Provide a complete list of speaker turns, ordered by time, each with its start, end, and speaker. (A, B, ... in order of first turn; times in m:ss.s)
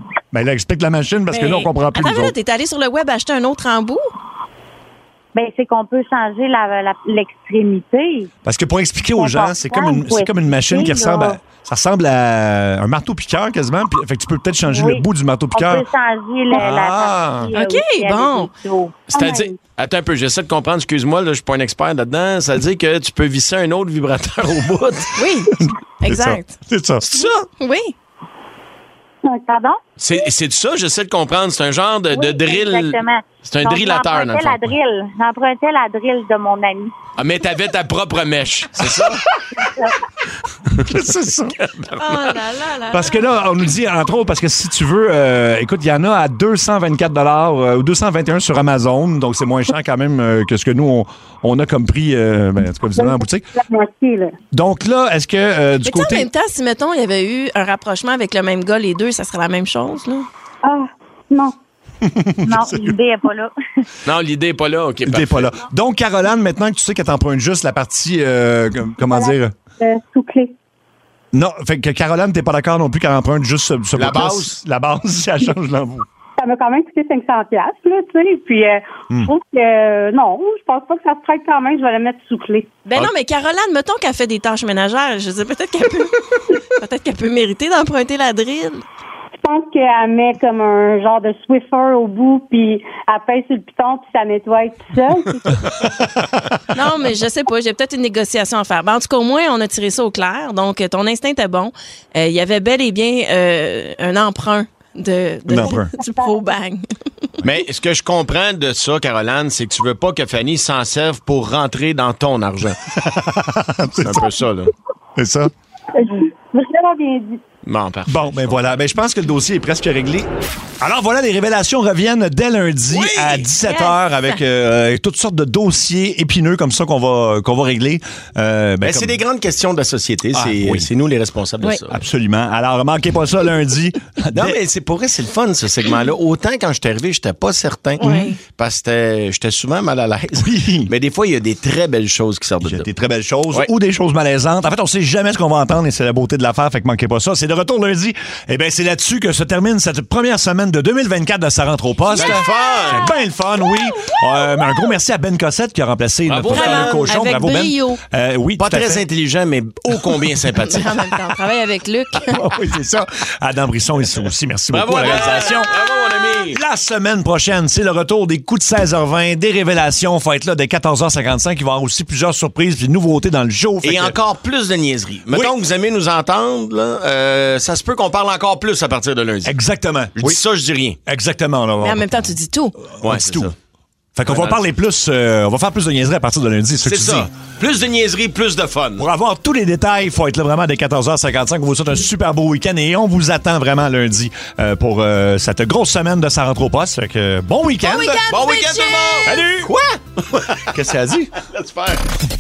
0:00.3-0:02.3 A
0:01.3-0:04.1 B
0:05.3-0:08.3 C
0:08.4-0:15.8 A
0:09.2-0:11.3 C
0:14.7-0:15.0 C
0:15.5-0:19.0 C
0:16.5-0:17.5 A
0:17.5-0:18.5 B
0:19.1-0:19.6 D
0:19.1-0:25.1 E
0:25.2-0:26.6 B
0:25.6-0:27.4 A
0:27.2-0:27.9 B
0:29.5-0:29.8 C
0:30.0-0:34.7 E
0:32.1-0:36.9 C
0:37.2-0:39.2 E
0:38.8-0:39.2 A
0:40.7-0:42.3 E
0:40.8-0:41.6 A
0:42.0-0:43.3 B
0:42.9-0:53.5 A
0:52.9-0:54.4 D
0:54.5-0:56.3 A
0:55.8-1:00.3 B
1:00.6-1:01.6 D
1:02.0-1:02.9 A
1:02.4-1:03.5 C
1:04.0-1:05.6 E
1:05.0-1:09.5 A
1:09.0-1:10.5 D
1:11.3-1:16.0 A
1:13.9-1:14.6 E
1:16.4-1:22.8 D
1:22.8-1:28.8 B
1:29.4-1:35.6 D
1:35.8-1:36.3 A
1:36.7-1:46.8 B
1:45.5-1:45.9 A
1:47.4-1:52.8 E
1:53.0-1:54.3 A
1:54.0-1:54.7 E
1:55.2-1:55.5 A
1:55.9-1:57.4 D
1:57.6-1:58.6 E
1:58.1-2:09.2 A
2:02.9-2:03.4 E
2:03.6-2:04.4 B
2:08.8-2:12.0 E
2:10.3-2:10.9 A
2:11.9-2:14.6 A
2:14.3-2:22.8 E
2:18.0-2:18.4 B
2:20.4-2:20.9 A
2:22.6-2:39.0 A
2:32.1-2:33.1 E
2:36.3-2:37.1 E
2:36.5-2:38.0 B
2:38.6-2:40.9 E
2:40.8-2:42.3 B
2:42.3-2:45.7 A
2:44.7-2:46.6 E
2:46.5-2:54.2 A
2:53.8-2:59.5 E
2:59.4-3:00.4 A
3:00.2-3:01.0 E
3:01.0-3:02.2 A
3:01.8-3:02.7 B
3:03.0-3:03.5 A
3:03.0-3:03.6 E
3:04.1-3:07.3 A
3:04.3-3:04.6 E
3:06.8-3:09.0 E
3:09.0-3:18.2 A
3:17.8-3:19.4 B
3:18.3-3:20.7 E
3:19.3-3:19.7 A
3:20.7-3:21.3 A
3:21.5-3:22.0 E